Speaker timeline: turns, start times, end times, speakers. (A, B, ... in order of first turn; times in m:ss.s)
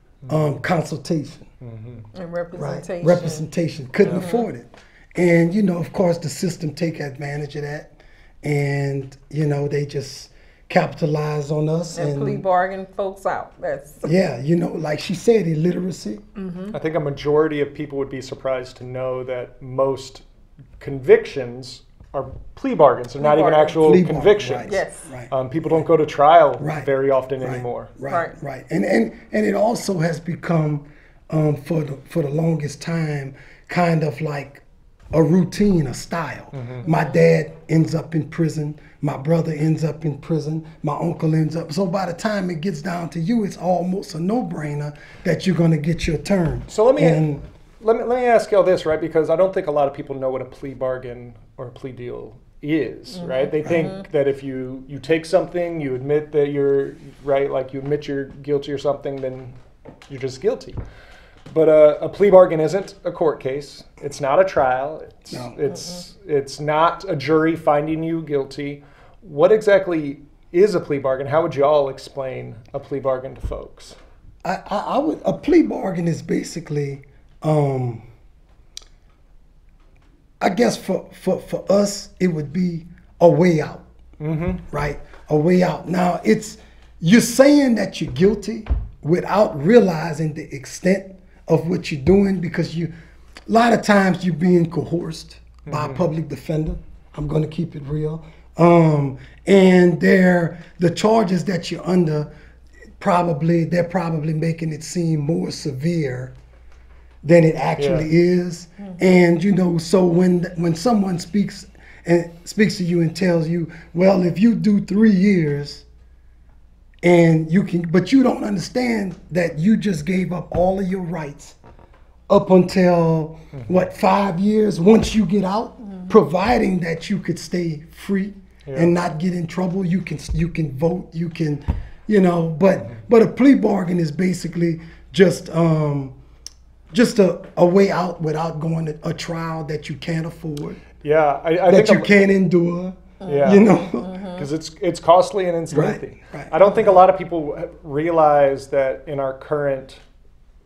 0:00.2-0:00.5 A
0:00.3-0:01.5 B
0:01.6-0:02.1 A
0:02.1-0:03.5 C
0:02.6-0:12.4 B
0:04.1-0:04.4 C
0:11.9-0:14.0 C
0:14.0-0:16.2 B
0:16.4-0:16.8 C
0:16.7-0:20.2 A
0:20.8-0:24.7 A
0:23.2-0:23.8 C
0:23.8-0:25.8 B
0:24.6-0:25.1 C
0:25.3-0:27.9 A
0:26.6-0:26.9 B
0:27.4-0:47.4 B
0:28.1-0:28.4 C
0:36.5-0:36.8 A
0:36.8-0:37.2 C
0:46.7-0:47.2 A
0:47.8-0:59.5 A
0:53.1-0:54.0 C
1:00.1-1:00.8 A
1:01.5-1:14.0 A
1:05.3-1:05.6 B
1:05.7-1:06.0 C
1:14.4-1:18.0 B
1:20.4-1:23.8 B
1:24.2-1:24.6 A
1:24.7-1:32.9 B
1:33.5-1:42.3 B
1:35.7-1:36.0 A
1:43.0-1:46.3 B
1:47.2-1:55.8 B
1:47.8-1:48.1 A
1:57.0-2:01.6 B
2:02.3-2:16.1 B
2:03.5-2:03.8 A
2:05.8-2:06.1 C
2:08.7-2:08.9 A
2:16.9-2:20.8 B
2:21.0-2:22.1 A
2:21.7-2:24.1 B
2:23.2-2:24.5 C
2:23.3-2:23.7 A
2:24.4-2:30.0 A
2:25.7-2:27.0 B